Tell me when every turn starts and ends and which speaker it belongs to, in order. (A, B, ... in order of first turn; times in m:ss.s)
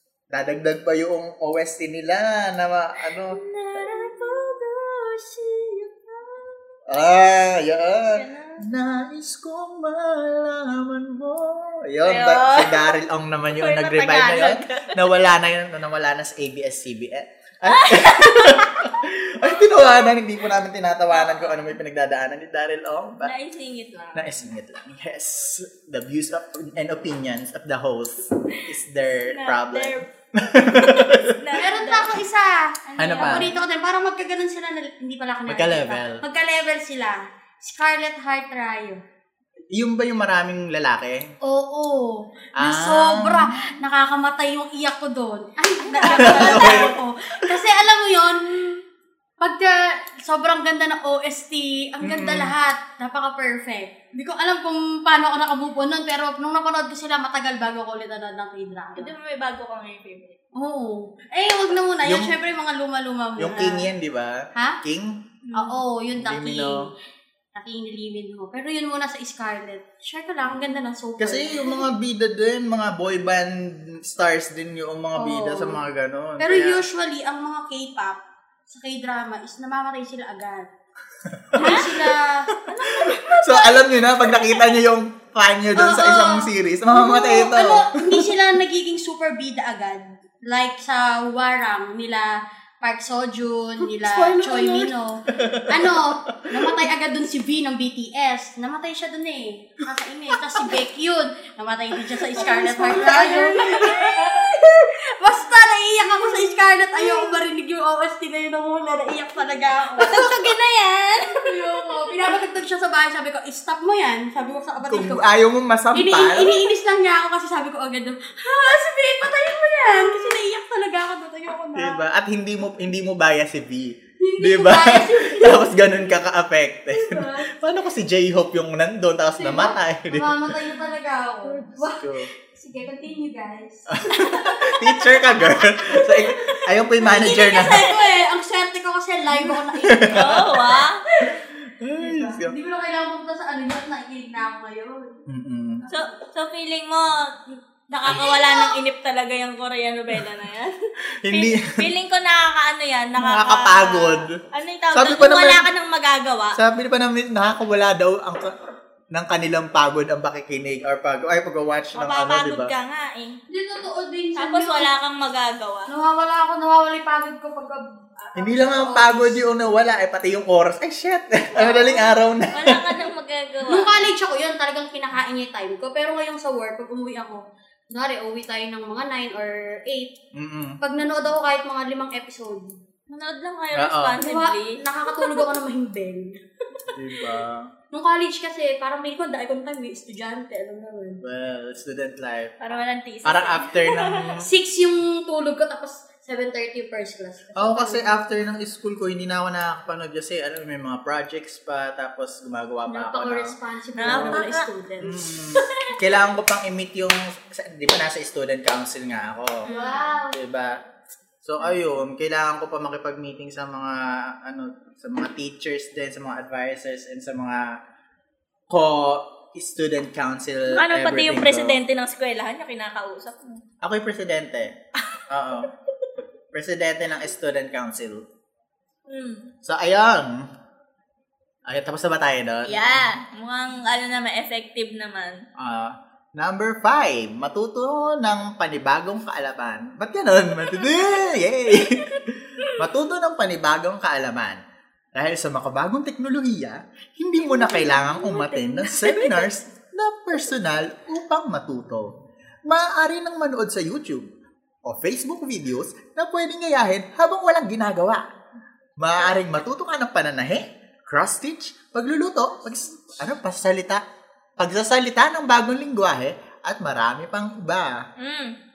0:00.3-0:03.4 A
0:03.1-0:06.8 B
0:06.9-0:23.3 A
0:08.0-0:08.7 B
0:12.0-0:13.0 B
0:13.5-0:15.1 B
0:17.7-0:18.9 B
0:21.1-0:21.8 B
0:23.2-0:24.4 B
0:24.2-0:31.4 A
0:29.3-0:30.0 B
0:30.8-0:32.2 B
0:31.6-0:39.0 C
0:32.9-0:33.6 B
0:33.0-0:33.5 A
0:35.5-0:36.2 A
0:39.7-0:41.3 A
0:41.4-0:48.8 C
0:42.6-0:43.7 A
0:45.9-0:46.9 B
0:46.2-0:47.0 A
0:49.4-0:59.1 C
0:52.0-0:52.6 A
0:59.0-1:00.4 B
1:00.6-1:03.9 C
1:02.0-1:02.4 A
1:03.4-1:05.2 A
1:05.4-1:05.8 B
1:05.6-1:06.9 C
1:06.2-1:06.9 A
1:07.6-1:11.9 C
1:11.2-1:16.8 A
1:15.2-1:15.8 C
1:16.4-1:20.7 C
1:21.3-1:22.2 A
1:21.5-1:22.5 C
1:21.6-1:21.9 B
1:22.7-1:24.6 B
1:22.8-1:28.3 A
1:25.8-1:50.6 C
1:33.8-1:36.9 A
1:42.1-1:44.5 A
1:42.5-1:44.2 B
1:50.0-1:51.6 B
1:51.2-1:55.3 C
1:54.9-1:56.6 A
1:55.9-2:02.0 C
2:01.8-2:10.6 A
2:04.2-2:05.9 C
2:06.9-2:07.5 C
2:09.4-2:21.4 C
2:11.5-2:12.3 A
2:13.9-2:18.0 A
2:19.3-2:22.6 A
2:20.1-2:21.0 B
2:22.0-2:25.2 C
2:25.3-2:25.8 A
2:25.9-2:30.7 B
2:28.1-2:28.8 C
2:31.2-2:31.7 A
2:31.3-2:36.6 B
2:33.2-2:34.4 A
2:34.9-2:35.7 A
2:36.6-2:38.6 A
2:39.1-2:42.7 A
2:42.0-2:43.4 B
2:43.5-2:44.9 C
2:44.4-2:45.9 B
2:45.9-2:49.4 C
2:48.4-2:53.0 A
2:51.6-2:52.2 C
2:52.5-2:54.1 B
2:53.7-3:00.2 C
3:00.3-3:00.8 A
3:00.8-3:02.8 C
3:03.1-3:05.4 B
3:03.8-3:04.2 A
3:04.2-3:06.9 C
3:06.9-3:07.7 A
3:07.9-3:11.2 C
3:11.2-3:12.6 A
3:12.6-3:14.4 B
3:13.2-3:14.5 A
3:14.4-3:18.1 C
3:17.6-3:24.4 A
3:22.9-3:25.6 C
3:24.0-3:24.7 B
3:25.0-3:29.7 A
3:25.6-3:26.0 B
3:29.6-3:30.1 B
3:29.7-3:30.4 C
3:30.3-3:30.8 A
3:31.4-3:37.8 A
3:38.7-3:41.8 A
3:40.7-3:43.6 B
3:43.8-3:44.7 A
3:45.3-3:45.7 A
3:46.5-3:48.2 A
3:49.1-3:49.5 B
3:49.6-3:50.5 A
3:51.7-3:53.1 A
3:52.6-3:55.4 B
3:55.6-4:04.6 A
4:00.8-4:01.2 B
4:02.0-4:02.8 B
4:05.2-4:12.2 A
4:07.4-4:09.5 B
4:12.7-4:14.3 A
4:14.8-4:18.2 A
4:19.0-4:24.0 A
4:24.6-4:28.1 A
4:28.2-4:28.6 B